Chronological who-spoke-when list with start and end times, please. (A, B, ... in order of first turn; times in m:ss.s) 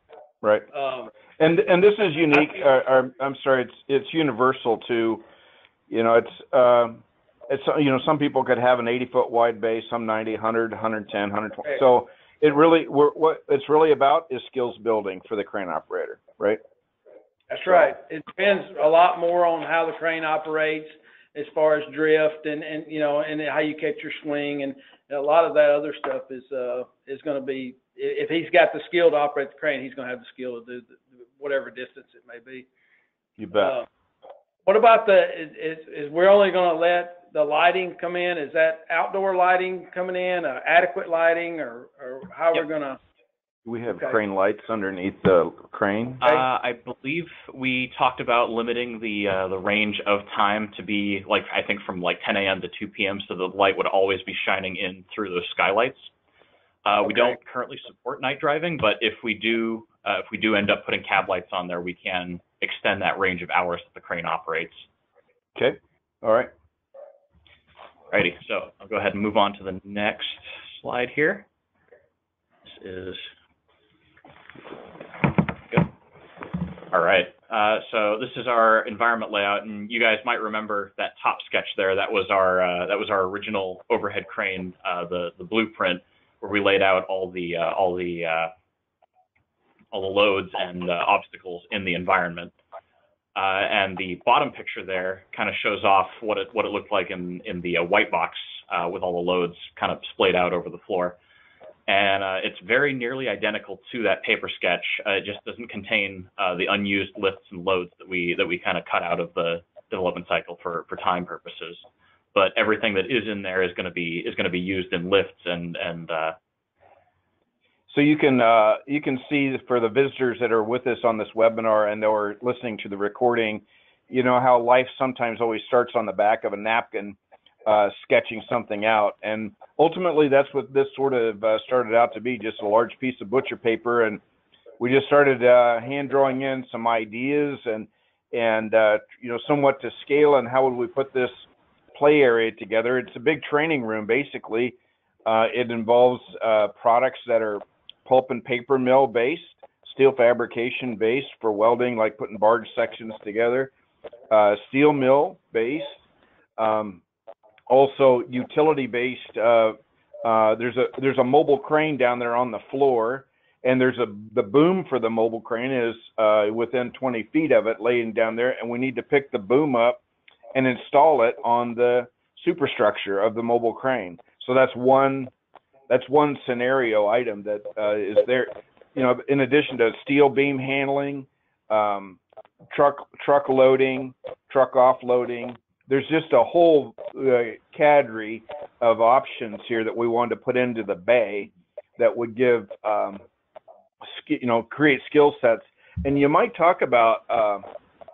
0:00.4-0:00.7 A
0:00.7-0:01.1 B
0:01.4-0:05.2 A
0:05.9-0:16.6 A
0:17.5-0:32.7 B
0:17.7-0:17.9 A
0:33.4-0:33.8 A
0:33.6-0:33.9 B
0:34.7-0:43.0 B
0:43.7-0:46.2 A
0:46.2-0:56.1 C
0:56.8-1:04.9 C
1:05.6-1:06.5 A
1:08.1-1:11.4 C
1:12.7-1:13.3 C
1:15.2-1:15.9 C
1:16.9-1:28.5 C
1:29.9-1:32.6 C
1:33.4-1:41.2 C
1:41.9-1:56.4 C
1:57.9-2:14.2 A
2:14.8-2:33.7 A
2:34.3-2:36.0 A
2:36.6-2:37.0 A
2:37.7-2:50.0 A
2:50.5-2:55.3 A
2:55.9-3:02.2 A
3:02.7-3:13.2 A
3:14.0-3:17.6 A